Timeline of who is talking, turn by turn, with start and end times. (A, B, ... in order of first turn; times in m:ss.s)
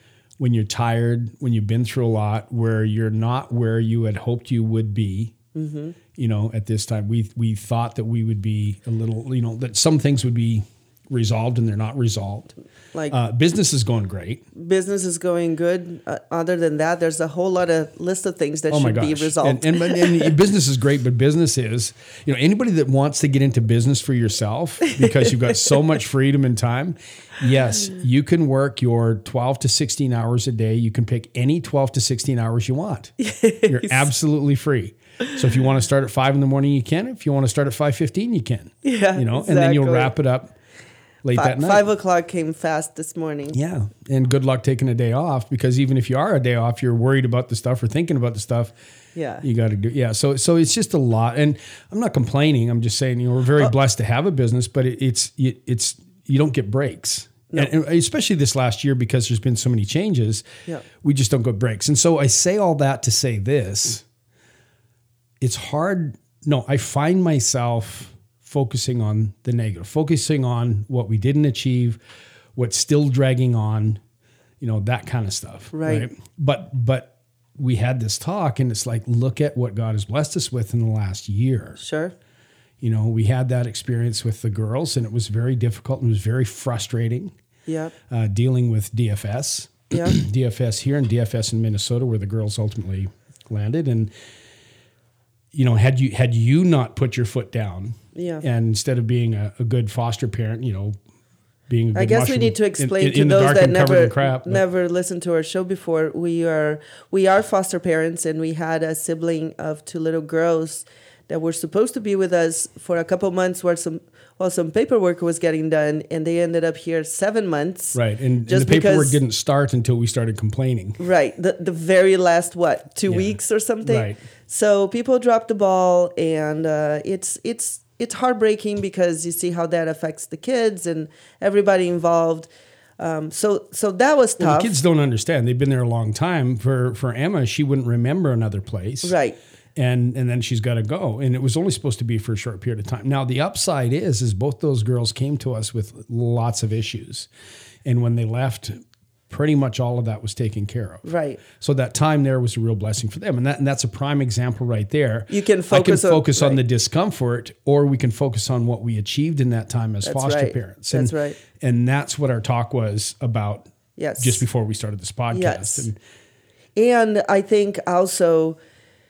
0:00.4-0:05.4 A
0:05.6-0:06.0 B
0:06.2-0:12.5 A
0:13.1-0:14.4 A
0:14.6-0:20.3 B
0:18.7-0:33.1 A
0:33.2-0:34.1 B
0:33.7-0:40.6 A
0:38.8-0:40.1 B
0:41.2-0:41.9 A
0:41.4-0:43.6 B
0:43.5-0:48.7 A
0:49.2-0:49.4 B
0:49.4-1:00.4 A
1:01.0-1:04.0 A
1:05.4-1:12.0 A
1:12.6-1:14.0 A
1:14.6-1:21.8 A
1:15.7-1:16.1 B
1:21.8-1:22.2 B
1:22.8-1:27.3 A
1:27.7-1:27.9 B
1:28.1-1:34.1 A
1:35.5-1:41.0 A
1:38.2-1:38.4 B
1:41.7-1:44.6 A
1:42.0-1:59.2 B
1:57.9-2:01.0 A
2:01.0-2:14.8 B
2:03.1-2:04.2 A
2:14.4-2:19.2 A
2:19.0-2:19.4 B
2:19.8-2:27.3 A
2:27.8-2:28.8 A
2:29.3-2:46.0 A
2:31.0-2:31.4 B
2:35.3-2:36.6 B
2:40.0-2:41.4 B
2:44.0-2:44.4 B
2:45.3-2:45.9 B
2:46.8-2:48.6 B